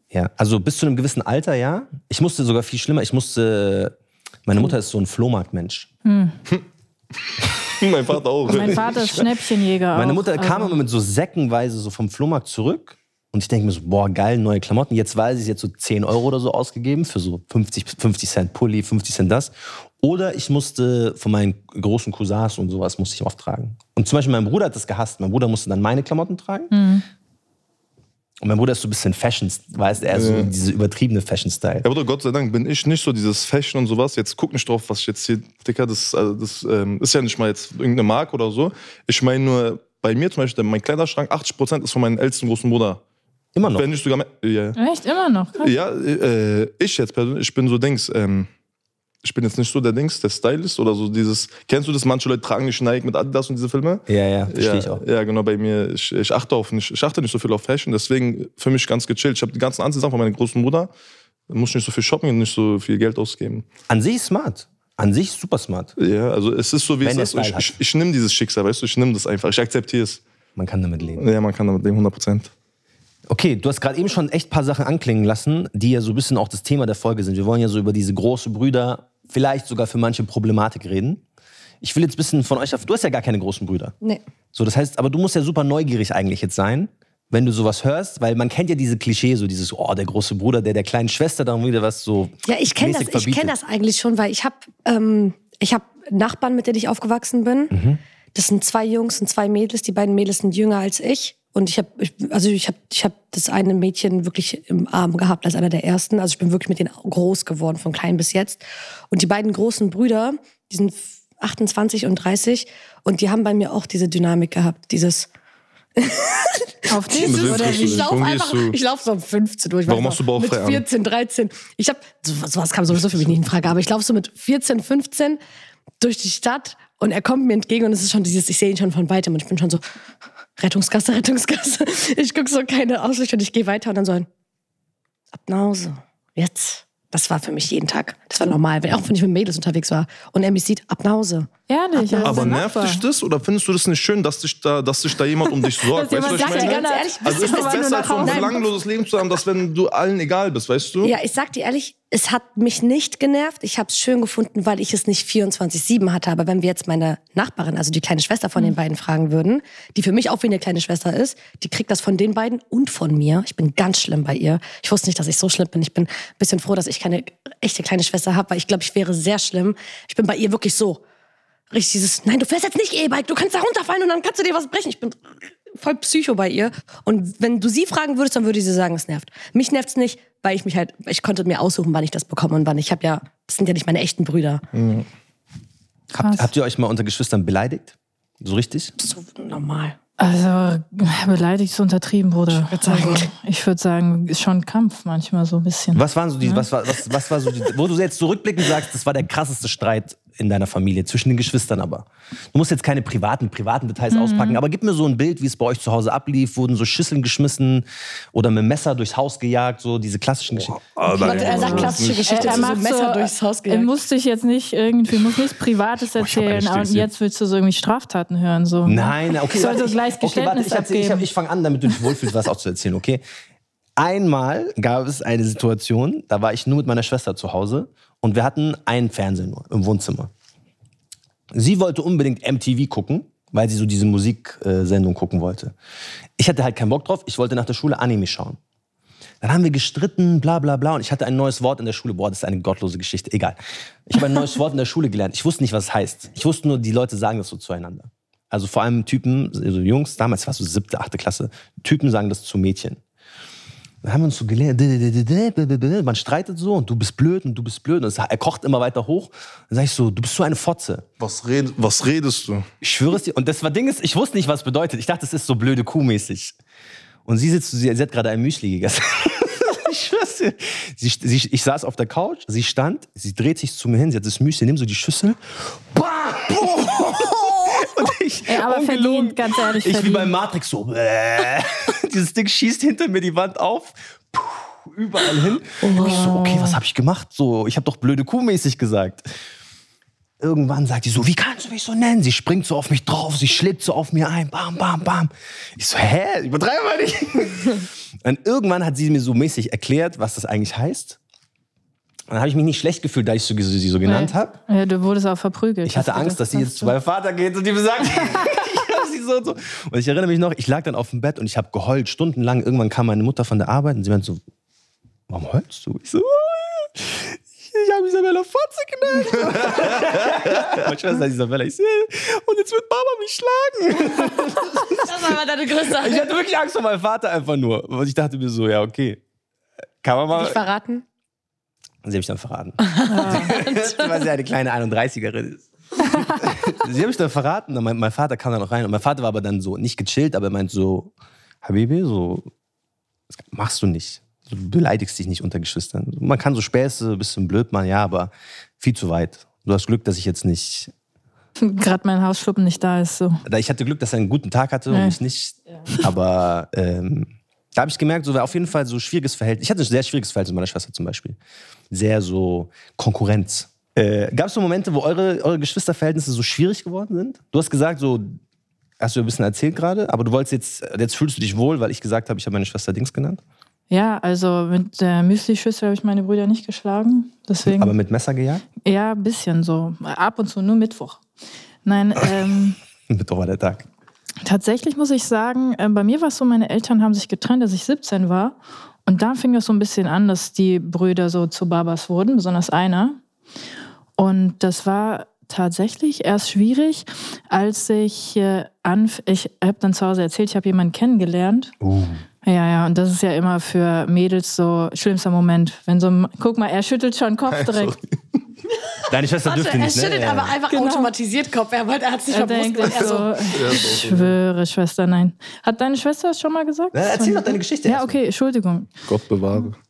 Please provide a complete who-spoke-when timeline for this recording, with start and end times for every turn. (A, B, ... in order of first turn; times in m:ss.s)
0:00.1-0:04.0 A
0:04.5-0:05.9 A
0:06.0-0:06.4 B
0:07.8-0:08.9 C
0:08.5-0:09.3 A
0:08.5-0:10.8 B
0:09.9-0:26.7 A
0:26.7-0:27.0 B
0:28.4-0:31.9 A
0:30.1-0:30.5 C
0:31.8-0:43.0 C
0:43.6-0:43.8 A
0:43.7-0:44.8 C
0:44.8-0:45.7 B
0:45.6-0:48.5 C
0:49.2-1:00.9 C
0:54.1-0:55.0 A
1:01.5-1:03.7 C
1:03.9-1:05.9 A
1:06.0-1:10.2 C
1:07.0-1:07.7 A
1:10.6-1:11.2 A
1:11.2-1:12.5 C
1:13.3-1:21.2 A
1:21.8-1:24.0 A
1:24.5-1:33.5 A
1:32.5-1:37.7 D
1:37.7-1:38.0 A
1:38.3-1:55.3 D
1:56.0-2:05.4 D
1:56.9-1:58.2 B
1:57.1-1:58.8 C
1:59.9-2:00.8 C
2:06.0-2:09.8 D
2:10.6-2:14.3 D
2:15.3-2:21.5 D
2:21.7-2:23.0 B
2:22.0-2:22.5 D
2:22.2-2:31.1 C
2:25.8-2:28.6 B
2:26.2-2:28.7 D
2:31.0-2:51.0 D
2:51.7-3:04.6 D
3:04.7-3:05.1 C
3:06.1-3:08.9 A
3:06.2-3:06.5 B
3:09.0-3:10.0 D
3:10.2-3:16.7 B
3:12.5-3:13.3 D
3:16.0-3:32.1 A
3:24.1-3:24.6 B
3:30.8-3:32.7 C
3:31.2-3:33.9 D
3:31.4-3:41.3 B
3:36.2-3:37.1 A
3:38.8-3:43.2 A
3:44.0-3:50.3 A
3:51.5-3:55.7 A
3:56.4-3:58.6 A
3:59.4-4:13.0 A
4:14.0-4:21.1 A
4:21.2-4:22.7 C
4:22.8-4:26.6 A
4:27.3-4:49.3 A
4:38.5-4:40.3 B
4:45.8-4:46.3 D
4:46.0-4:46.8 B
4:50.4-5:01.2 A
5:02.3-5:04.6 A
5:04.1-5:06.9 B
5:05.8-5:14.4 A
5:15.3-5:25.3 A
5:25.0-5:26.3 D
5:26.0-5:29.2 A
5:30.0-5:30.6 A
5:30.3-5:31.0 D
5:32.0-5:41.1 A
5:32.8-5:34.2 D
5:33.1-5:33.5 B
5:41.6-5:42.5 A
5:43.5-5:50.9 A
5:51.6-5:53.4 B
5:53.5-6:01.4 A
5:54.9-5:55.2 B
6:01.9-6:08.4 A
6:09.0-6:13.4 A
6:13.9-6:18.0 B
6:17.7-6:18.6 A
6:18.8-6:21.2 B
6:21.8-6:22.8 B
6:23.1-6:23.9 A
6:24.4-6:33.2 B
6:34.2-6:41.7 B
6:41.8-6:42.2 A
6:42.4-6:48.0 B
6:47.6-6:48.0 C
6:49.1-6:50.6 A
6:49.4-6:53.3 D
6:50.7-6:51.1 B
6:52.3-6:58.9 B
6:53.0-6:54.3 C
6:56.9-6:58.2 A
6:59.1-6:59.8 C